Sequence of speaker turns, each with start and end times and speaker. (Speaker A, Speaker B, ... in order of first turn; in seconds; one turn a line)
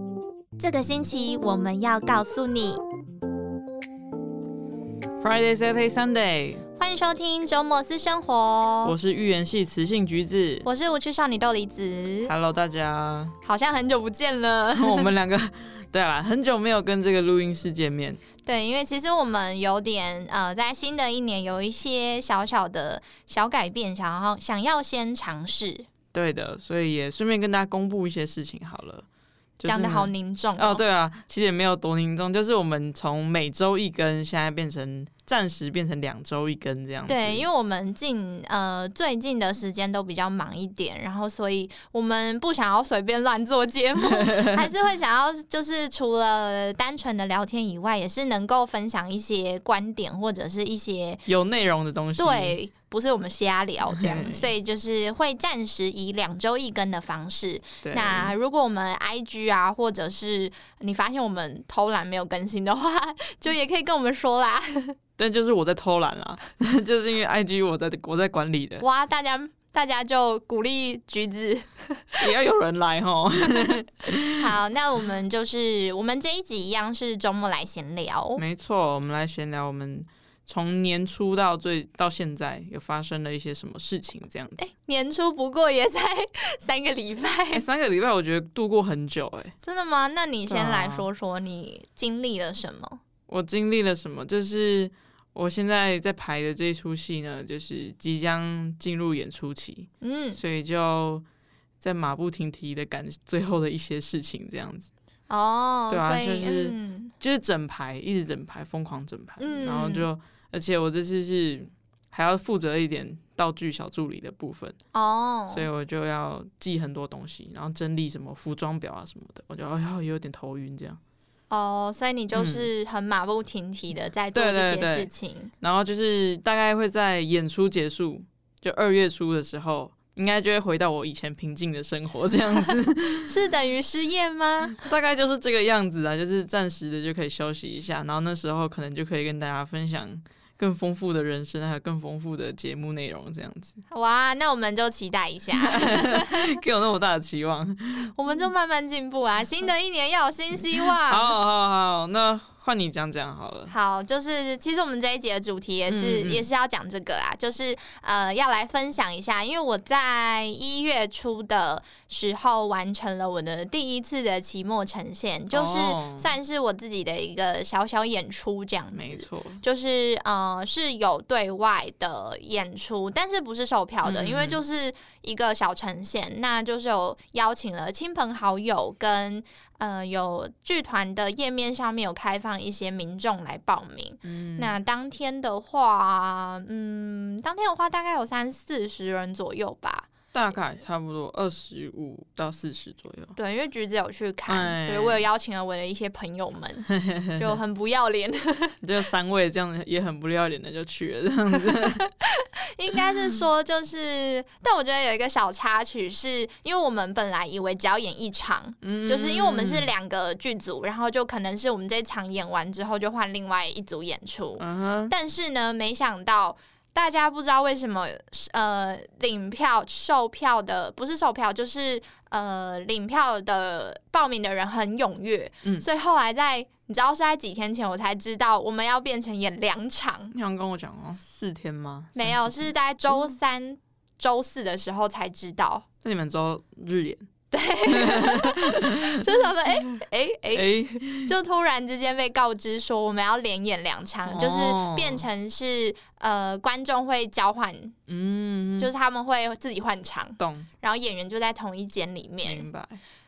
Speaker A: 0.6-2.8
Speaker B: 5.2-6.7
Speaker A: 6.8-8.9
Speaker B: 8.8-10.7
Speaker A: 10.6-12.3
Speaker B: 12.3-13.3
Speaker A: 13.4-15.1
Speaker B: 14.8-18.2
Speaker A: 18.4-25.9
Speaker B: 26.1-29.1
Speaker B: 29.6-37.5
Speaker A: 29.7-30.8
Speaker A: 37.1-51.2
Speaker B: 44.0-44.7
Speaker B: 51.3-52.6
Speaker A: 52.2-65.0
Speaker B: 53.9-54.5
Speaker B: 57.8-58.3
Speaker B: 65.2-68.8
Speaker A: 68.8-72.3
Speaker B: 72.2-74.5
Speaker A: 74.2-78.4
Speaker B: 78.4-84.6
Speaker A: 84.6-87.6
Speaker B: 87.5-89.5
Speaker A: 89.6-93.0
Speaker B: 90.5-91.1
Speaker B: 93.3-101.2
Speaker A: 100.0-100.4
Speaker B: 101.8-104.9
Speaker A: 105.3-107.1
Speaker B: 105.9-114.8
Speaker A: 109.4-110.1
Speaker A: 114.9-115.7
Speaker B: 115.5-121.0
Speaker A: 121.5-125.5
Speaker B: 122.3-122.7
Speaker B: 124.3-125.1
Speaker B: 125.6-133.3
Speaker A: 133.2-134.9
Speaker B: 134.7-143.8
Speaker A: 143.9-146.6
Speaker B: 145.5-148.1
Speaker A: 148.1-151.4
Speaker B: 151.1-153.7
Speaker A: 153.7-190.1
Speaker B: 155.9-156.5
Speaker B: 165.5-166.3
Speaker B: 168.9-169.6
Speaker B: 174.1-174.6
Speaker B: 184.2-184.7
Speaker B: 190.3-193.3
Speaker A: 193.4-198.8
Speaker B: 194.5-195.2
Speaker B: 196.9-197.6
Speaker B: 198.8-202.1
Speaker A: 201.8-230.3
Speaker B: 202.9-203.3
Speaker B: 208.8-209.9
Speaker B: 214.6-215.1
Speaker B: 230.3-232.7
Speaker A: 232.2-235.8
Speaker B: 236.0-237.3
Speaker A: 237.5-240.7
Speaker B: 237.9-239.7
Speaker B: 240.5-241.3
Speaker A: 241.2-248.0
Speaker B: 244.3-245.2
Speaker B: 248.1-248.9
Speaker A: 248.8-252.7
Speaker B: 250.4-250.7
Speaker B: 252.4-253.0